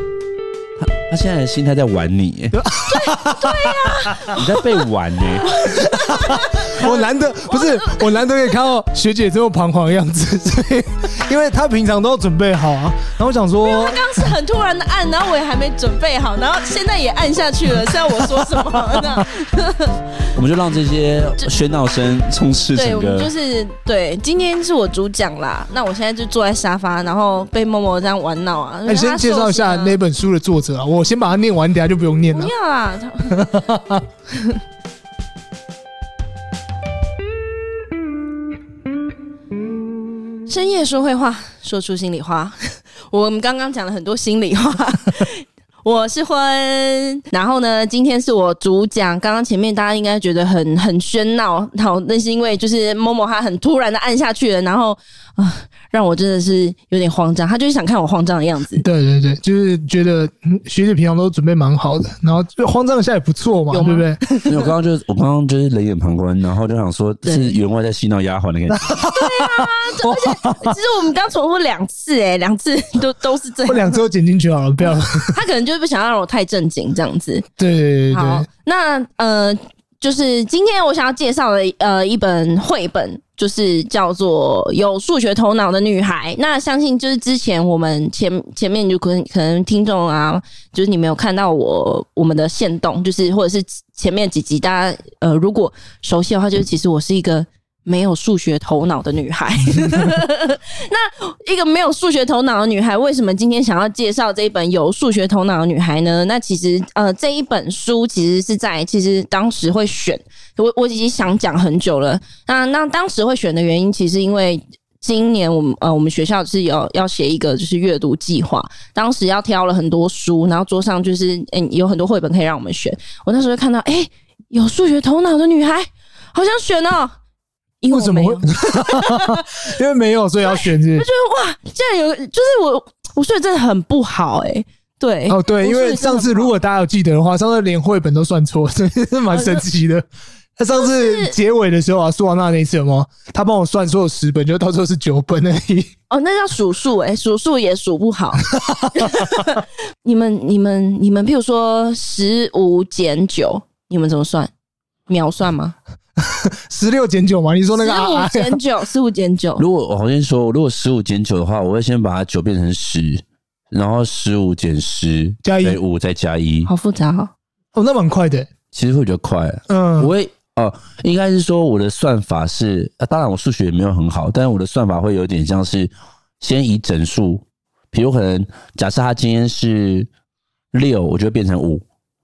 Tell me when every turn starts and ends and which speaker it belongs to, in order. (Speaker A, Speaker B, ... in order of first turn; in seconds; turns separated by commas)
Speaker A: 0.8-2.6, Speaker B: 2.5-4.2, Speaker C: 2.9-4.7, Speaker A: 4.3-5.5, Speaker C: 5.4-8.2, Speaker B: 5.8-14.3, Speaker C: 13.7-20.1, Speaker B: 18.4-19.2, Speaker A: 20.4-23.3, Speaker C: 22.8-30.0, Speaker B: 28.9-32.5, Speaker C: 32.3-33.7, Speaker B: 33.3-34.0, Speaker C: 40.5-58.9, Speaker B: 58.8-64.2, Speaker C: 63.7-64.7, Speaker A: 64.5-69.1, Speaker C: 67.2-67.6, Speaker B: 68.7-70.8, Speaker C: 69.0-74.0, Speaker B: 73.7-75.3, Speaker C: 74.9-77.5, Speaker B: 77.6-78.5, Speaker C: 78.1-127.2, Speaker C: 127.8-129.5, Speaker B: 127.9-131.1, Speaker C: 130.4-136.5, Speaker B: 135.3-140.1, Speaker C: 139.3-139.7, Speaker B: 140.6-145.9, Speaker C: 140.7-141.3, Speaker C: 146.1-154.5, Speaker B: 148.5-149.4, Speaker C: 155.1-155.8, Speaker B: 156.2-158.6, Speaker C: 157.7-159.7, Speaker A: 159.6-166.7, Speaker B: 165.4-165.8, Speaker C: 166.7-167.3, Speaker B: 167.8-168.5, Speaker A: 168.7-180.1, Speaker B: 169.7-170.1, Speaker A: 180.7-181.8